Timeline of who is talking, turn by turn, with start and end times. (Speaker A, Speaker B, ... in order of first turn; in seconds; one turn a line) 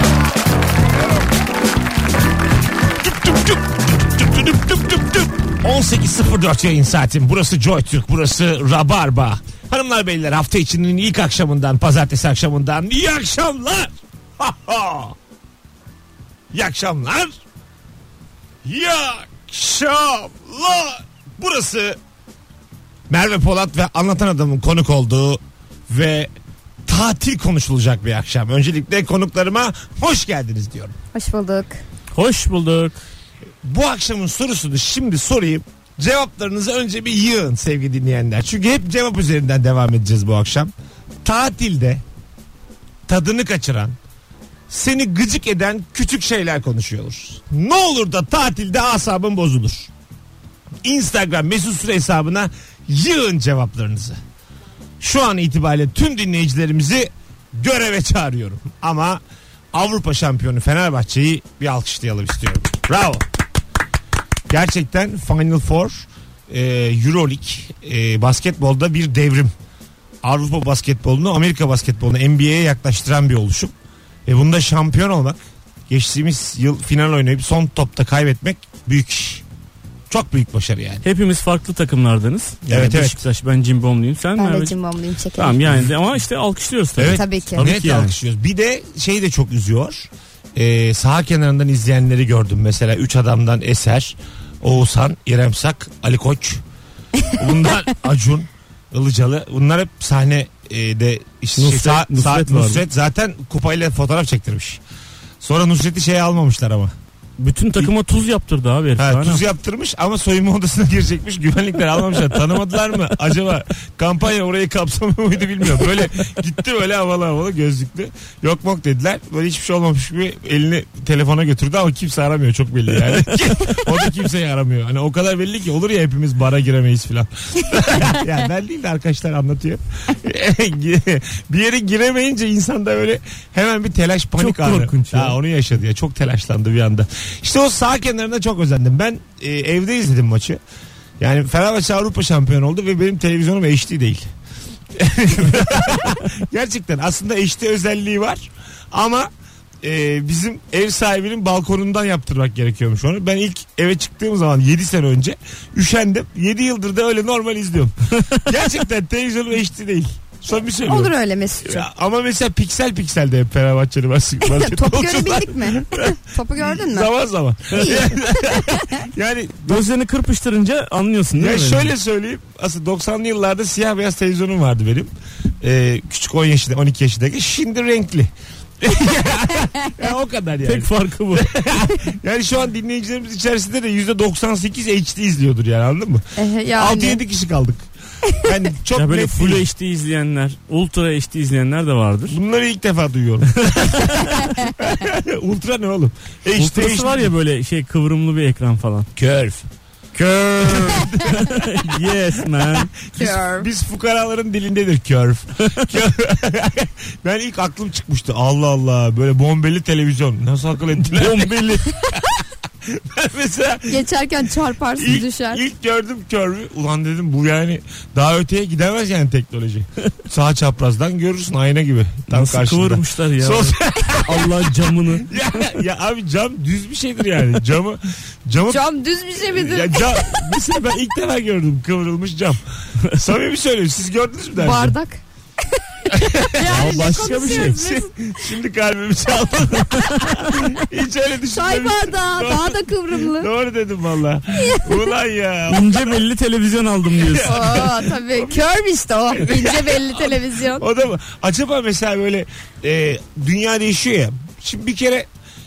Speaker A: 3.0-15.2
Speaker A: 16.5-17.4
Speaker A: 18.6-22.0
Speaker A: 23.1-26.3
Speaker A: 26.9-30.9
Speaker B: 31.1-31.8
Speaker C: 32.1-33.0
Speaker A: 33.6-40.7
Speaker A: 41.2-42.0
Speaker A: 43.1-44.0
Speaker A: 44.7-49.9
Speaker A: 50.8-54.2
Speaker A: 55.0-59.2
Speaker A: 59.7-63.3
Speaker A: 64.5-69.5
Speaker A: 70.2-73.7
Speaker A: 74.2-79.4
Speaker A: 80.1-81.0
Speaker C: 81.0-84.7
Speaker A: 82.7-83.2
Speaker B: 84.4-85.6
Speaker C: 85.4-88.1
Speaker A: 87.0-96.6
Speaker B: 87.1-87.6
Speaker A: 97.3-104.8
Speaker C: 101.6-102.8
Speaker A: 105.4-106.9
Speaker C: 107.4-109.4
Speaker A: 109.0-140.6
Speaker C: 134.4-135.3
Speaker A: 141.2-144.3
Speaker A: 144.9-149.3
Speaker A: 149.8-169.9
Speaker B: 160.8-161.9
Speaker B: 164.4-167.1
Speaker B: 167.7-169.0
Speaker C: 169.7-171.9
Speaker A: 171.3-187.9
Speaker C: 180.6-181.9
Speaker B: 186.3-187.2
Speaker A: 188.4-189.6
Speaker C: 188.9-192.4
Speaker A: 192.3-197.3
Speaker C: 193.6-194.2
Speaker C: 196.6-199.1
Speaker A: 199.2-199.7
Speaker C: 200.1-203.0
Speaker A: 200.6-201.9
Speaker A: 203.0-214.1
Speaker B: 203.2-203.7
Speaker C: 211.0-212.0
Speaker B: 213.9-215.6
Speaker A: 214.9-228.8
Speaker C: 222.3-225.8
Speaker B: 228.7-230.5
Speaker A: 229.4-234.9
Speaker B: 234.6-235.2
Speaker B: 236.0-238.1
Speaker A: 236.1-246.2
Speaker C: 236.7-237.9
Speaker C: 240.0-240.4
Speaker B: 241.5-243.5
Speaker B: 244.5-245.1
Speaker C: 245.7-247.6
Speaker A: 247.2-248.6
Speaker B: 247.4-250.8
Speaker A: 249.3-255.3